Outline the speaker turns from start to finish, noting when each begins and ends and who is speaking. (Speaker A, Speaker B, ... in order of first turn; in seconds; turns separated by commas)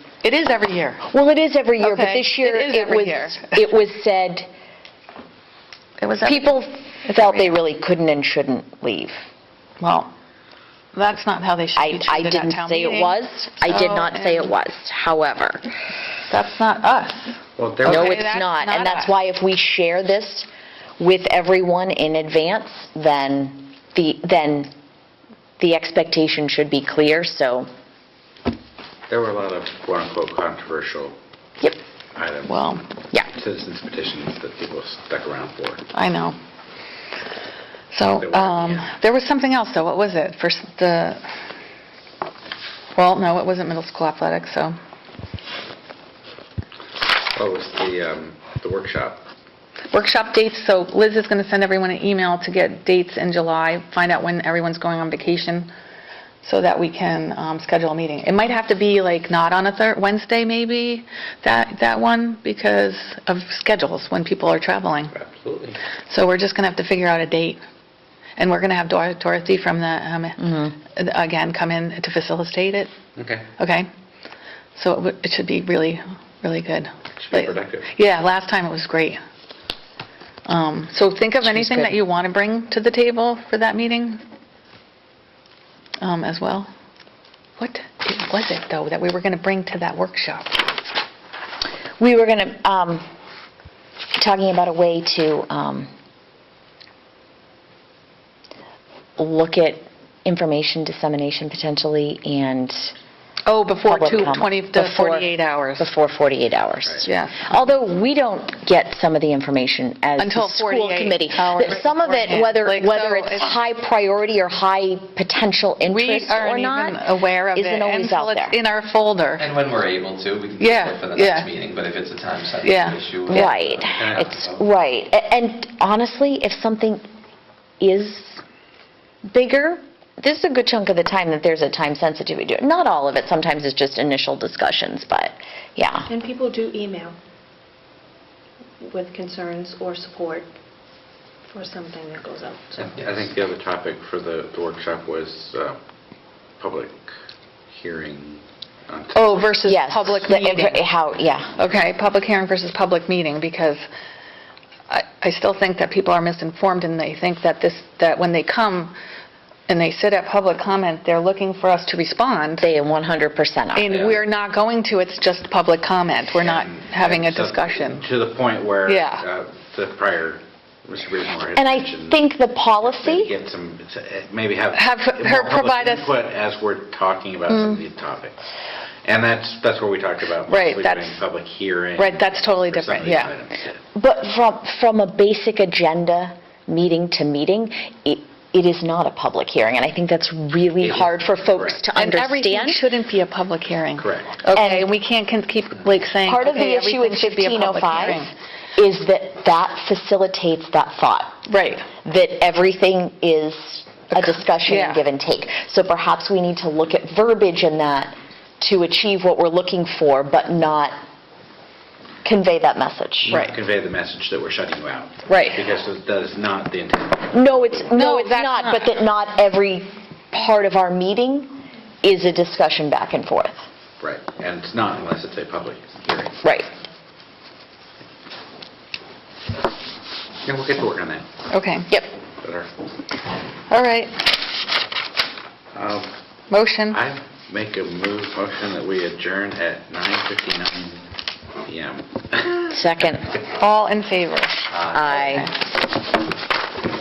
Speaker A: 0.2-1.0, Speaker B: 1.1-4.5, Speaker A: 1.8-3.6, Speaker A: 6.0-6.5, Speaker B: 6.2-9.2, Speaker A: 7.0-7.5, Speaker A: 9.8-10.1, Speaker A: 10.9-14.5, Speaker B: 11.8-15.6, Speaker A: 16.3-19.1, Speaker C: 17.6-18.2, Speaker B: 17.9-20.5, Speaker B: 21.0-24.7, Speaker B: 25.6-27.7, Speaker C: 29.1-31.2, Speaker C: 32.1-32.8, Speaker A: 32.5-32.8, Speaker C: 33.3-35.9, Speaker A: 35.9-36.4, Speaker A: 37.9-41.3, Speaker C: 38.1-38.9, Speaker A: 43.0-44.8, Speaker C: 47.3-49.2, Speaker A: 49.9-55.7, Speaker A: 56.4-65.1, Speaker C: 65.1-65.8, Speaker A: 66.1-67.6, Speaker A: 68.4-72.9, Speaker B: 70.4-70.7, Speaker C: 73.2-73.5, Speaker A: 73.6-73.9, Speaker A: 74.8-79.2, Speaker C: 77.2-77.9, Speaker A: 80.5-84.2, Speaker B: 81.5-82.0, Speaker A: 86.0-86.7, Speaker A: 87.6-90.7, Speaker B: 92.0-93.0, Speaker B: 94.2-95.9, Speaker B: 99.2-102.9, Speaker A: 103.5-105.9, Speaker B: 103.8-118.6, Speaker A: 107.0-107.6, Speaker A: 110.2-113.5, Speaker A: 115.8-119.5, Speaker D: 119.4-124.6, Speaker A: 120.6-121.5, Speaker A: 122.6-123.6, Speaker B: 123.3-127.0, Speaker C: 124.0-124.3, Speaker B: 127.8-128.4, Speaker B: 129.2-136.1, Speaker E: 136.1-137.2, Speaker E: 138.8-140.5, Speaker E: 141.5-143.0, Speaker C: 142.9-145.8, Speaker C: 146.6-147.1, Speaker C: 147.7-149.7, Speaker A: 149.1-150.8, Speaker B: 149.6-151.5, Speaker A: 151.6-153.9, Speaker A: 154.9-158.9, Speaker A: 159.7-162.7, Speaker B: 162.6-164.2, Speaker A: 163.8-168.1, Speaker C: 166.4-172.2, Speaker A: 168.9-169.2, Speaker B: 171.6-173.3, Speaker C: 172.8-178.4, Speaker A: 174.7-176.1, Speaker A: 177.5-177.8, Speaker C: 179.1-183.8, Speaker A: 180.5-181.2, Speaker A: 182.0-183.3, Speaker B: 183.9-192.9, Speaker C: 190.8-191.8, Speaker A: 191.9-198.3, Speaker C: 194.0-194.4, Speaker B: 194.5-194.9, Speaker B: 196.2-201.4, Speaker A: 201.5-201.9, Speaker B: 202.0-210.9, Speaker A: 204.1-205.0, Speaker B: 212.2-213.4, Speaker C: 213.2-217.8, Speaker A: 215.3-215.6, Speaker B: 217.3-223.6, Speaker A: 217.9-218.9, Speaker C: 224.0-226.4, Speaker B: 226.4-226.7, Speaker C: 230.4-231.3, Speaker A: 231.5-231.9, Speaker C: 232.4-232.7, Speaker A: 233.7-234.3, Speaker C: 235.8-236.1, Speaker A: 236.5-237.0, Speaker C: 236.9-241.0, Speaker C: 241.7-242.7, Speaker B: 242.7-243.3, Speaker A: 243.6-245.5, Speaker D: 244.7-245.0, Speaker B: 244.9-245.5